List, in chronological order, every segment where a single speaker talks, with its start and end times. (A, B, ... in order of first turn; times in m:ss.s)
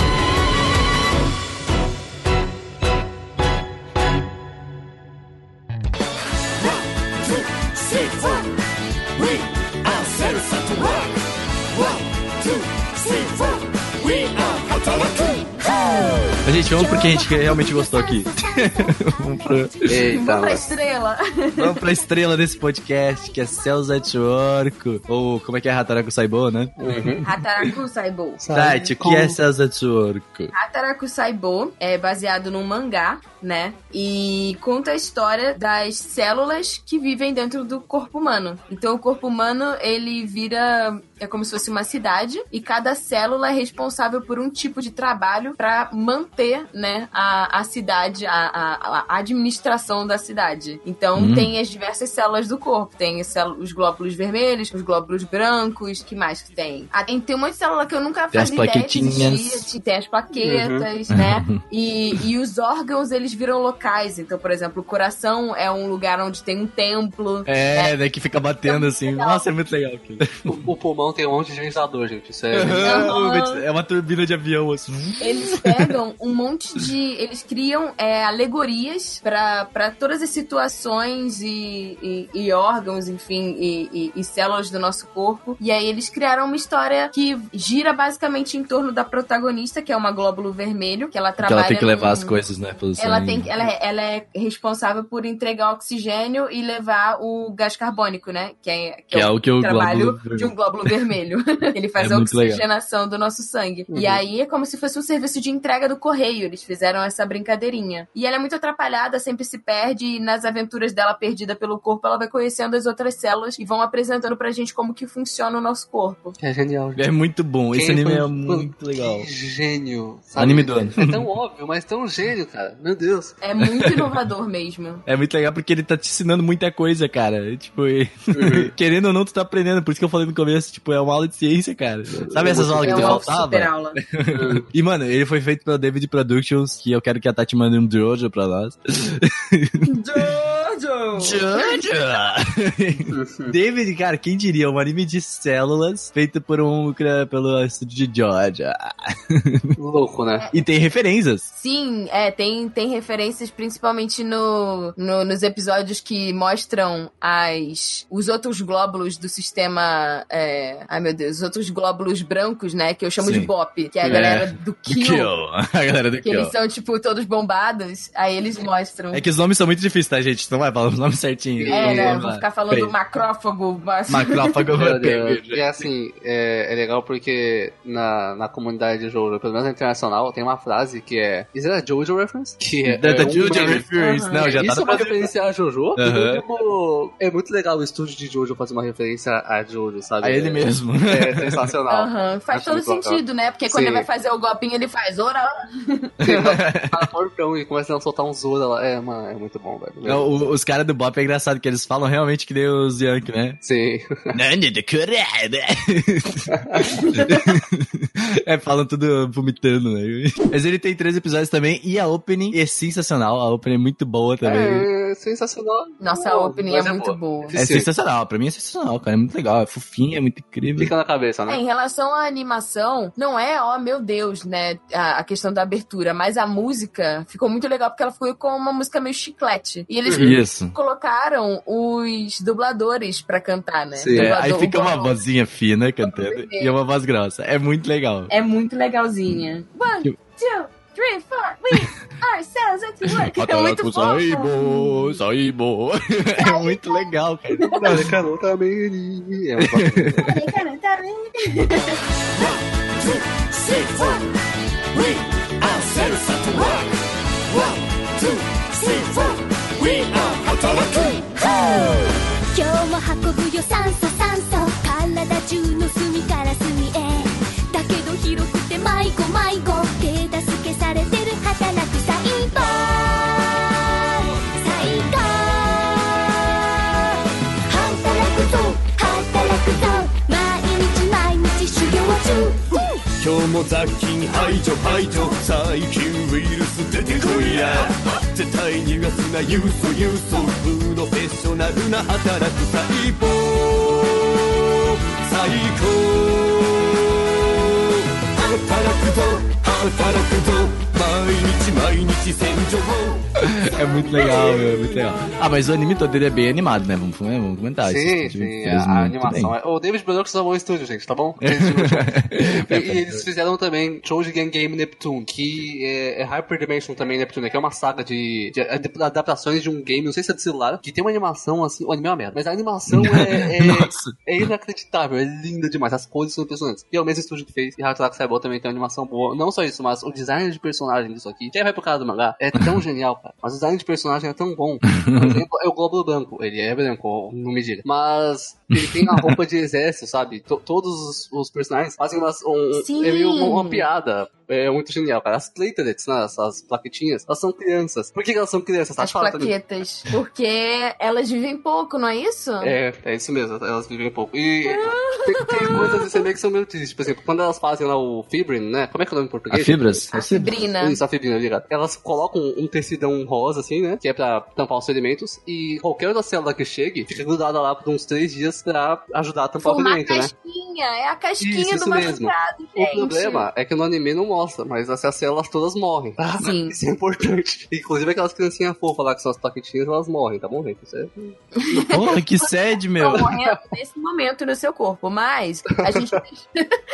0:09.9-0:10.9 A
0:13.2-0:19.9 B
0:16.4-0:20.2 C
0:19.9-0:20.7 D
0:20.1-0:21.8 E
0:21.6-0:27.7 C
0:26.8-0:27.2 D
0:27.2-0:28.4 E
0:28.4-0:29.4 D
0:28.5-0:30.5 C
0:30.5-1:08.0 E
0:51.2-0:51.5 C
0:58.3-0:59.6 C
1:00.4-1:00.9 D
1:01.1-1:01.6 C
1:07.4-1:10.5 C
1:08.6-1:09.5 E
1:10.5-1:13.1 D
1:12.5-1:15.9 C
1:12.7-1:13.6 E
1:15.2-1:32.4 E
1:31.4-1:33.5 C
1:33.0-1:56.4 E
1:39.1-1:40.5 C
1:42.0-1:42.6 C
1:43.9-1:44.2 D
1:56.4-1:57.1 D
1:57.0-1:59.3 C
1:57.7-2:03.4 D
2:00.4-2:01.2 C
2:03.4-2:05.0 E
2:03.6-2:04.1 C
2:05.1-2:19.9 C
2:08.3-2:08.7 D
2:12.1-2:13.2 D
2:12.8-2:14.0 E
2:14.3-2:14.7 D
2:19.9-2:21.8 E
2:21.2-2:29.7 C
2:23.1-2:23.6 D
2:29.8-2:30.4 D
2:30.5-2:31.5 C
2:31.5-2:45.3 E
2:43.2-2:43.5 C
2:44.0-2:44.4 D
2:44.0-2:46.5 C
2:46.2-2:49.2 E
2:49.1-2:52.9 C
2:51.6-2:52.2 D
2:51.7-2:54.6 E
2:54.1-2:55.9 C
2:54.8-3:14.1 D
3:02.9-3:05.3 C
3:03.4-3:04.5 E
3:06.0-3:06.4 C
3:10.2-3:11.6 C
3:11.9-3:16.1 E
3:16.2-3:17.0 C
3:16.2-3:20.4 D
3:20.0-3:23.6 C
3:23.6-3:24.3 D
3:24.3-3:26.5 C
3:26.5-3:27.0 D
3:27.0-3:27.4 E
3:27.1-3:34.9 C
3:34.4-3:37.9 D
3:36.0-3:37.6 E
3:37.6-3:40.9 C
3:40.8-3:41.6 D
3:41.5-3:55.2 E
3:50.1-3:50.4 D
3:50.1-3:50.7 C
3:54.0-3:54.3 D
3:54.1-3:58.3 C
3:56.0-3:56.7 E
3:58.3-4:05.2 E
4:03.1-4:08.1 C
4:06.4-4:07.8 E
4:07.8-4:10.3 D
4:09.6-4:10.3 C
4:10.2-4:12.0 E
4:13.7-4:14.2 B
4:15.6-4:16.8 A
4:18.8-4:42.9 B
4:43.2-5:03.2 A
5:03.4-5:09.5 C
5:07.8-5:49.6 D
5:11.4-5:13.2 C
5:22.9-5:24.5 C
5:34.9-5:35.4 C
5:38.7-5:39.4 C
5:42.8-5:43.9 E
5:49.0-5:52.7 E
5:52.6-6:00.1 D
5:54.7-5:56.2 E
5:59.5-6:00.5 C
6:00.1-6:01.0 E
6:00.8-6:10.3 D
6:09.6-6:13.5 E
6:11.4-6:21.4 D
6:16.4-6:16.7 E
6:21.6-6:22.1 E
6:21.9-6:23.3 C
6:23.0-6:26.5 E
6:23.1-6:23.6 D
6:25.8-6:26.2 D